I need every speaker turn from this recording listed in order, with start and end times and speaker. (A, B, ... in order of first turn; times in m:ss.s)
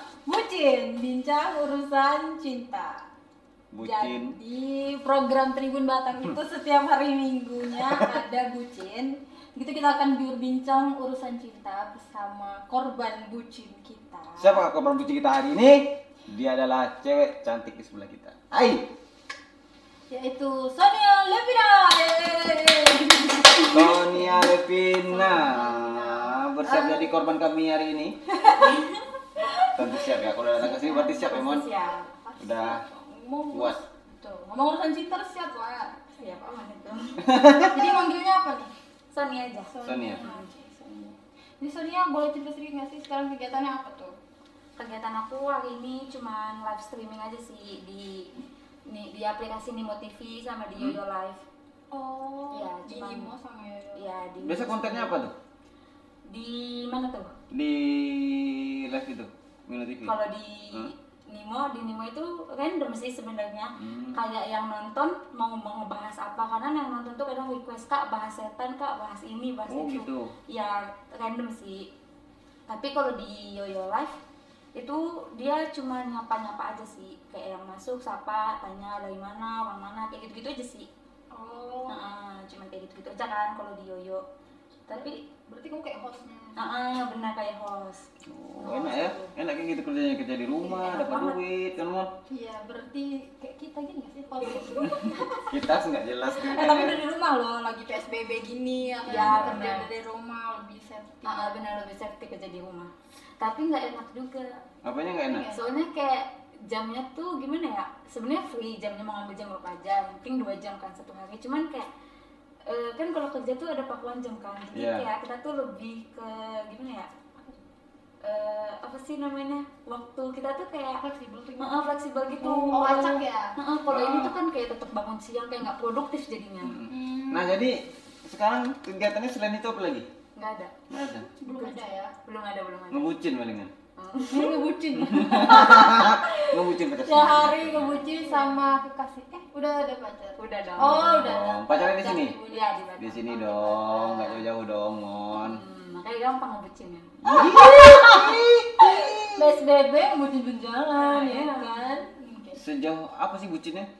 0:00.2-0:03.0 A
0:03.7-0:04.4 B
0:03.8-0:14.6 A
0:14.4-0:18.9 B
0:20.1-0:24.5 A
0:23.7-0:28.2 B
0:25.1-0:27.2 A
0:28.3-0:30.2 A
0:28.6-0:29.0 C
0:29.7-0:31.7 B
0:30.6-0:32.1 C
0:31.7-0:36.1 A
0:32.4-0:32.8 B
0:36.2-0:37.3 C
0:37.2-0:38.0 B
0:37.5-0:38.7 A
0:39.1-0:40.5 C
0:39.7-0:44.1 A
0:39.8-0:40.2 B
0:44.8-0:51.4 C
0:51.9-0:54.1 A
0:52.5-0:53.3 C
0:54.0-0:55.2 C
0:54.4-0:55.3 B
0:56.3-0:57.3 C
0:57.5-1:00.1 B
1:00.0-1:11.9 C
1:03.8-1:04.2 B
1:09.7-1:10.3 B
1:12.7-1:14.2 C
1:14.8-1:20.9 C
1:21.3-1:22.0 A
1:21.9-1:24.2 C
1:24.9-1:25.2 C
1:24.9-1:26.6 A
1:26.6-1:28.1 C
1:28.2-1:32.1 B
1:28.6-1:29.3 C
1:30.6-1:31.4 C
1:32.3-1:35.5 A
1:34.9-1:37.0 B
1:36.3-1:41.6 A
1:39.0-1:39.9 C
1:39.1-1:39.7 B
1:41.2-1:44.6 C
1:44.8-1:45.5 B
1:45.3-1:45.7 A
1:45.5-1:51.9 C
1:52.6-1:57.1 C
1:54.7-1:55.1 B
1:58.2-2:01.0 C
2:01.0-2:01.9 A
2:01.6-2:06.8 C
2:02.4-2:03.5 A
2:03.9-2:04.3 B
2:06.6-2:10.1 B
2:06.9-2:07.6 A
2:10.4-2:10.7 C
2:10.9-2:11.3 B
2:11.4-2:12.1 A
2:11.5-2:13.1 C
2:12.9-2:13.7 B
2:14.0-2:14.7 C
2:14.3-2:22.8 A
2:15.0-2:18.1 B
2:17.9-2:18.6 C
2:20.4-2:21.1 C
2:20.8-2:22.4 B
2:22.5-2:24.4 C
2:23.0-2:25.6 B
2:25.3-2:27.1 C
2:27.2-2:29.6 B
2:27.3-2:32.6 A
2:30.9-2:31.8 C
2:32.6-2:33.9 B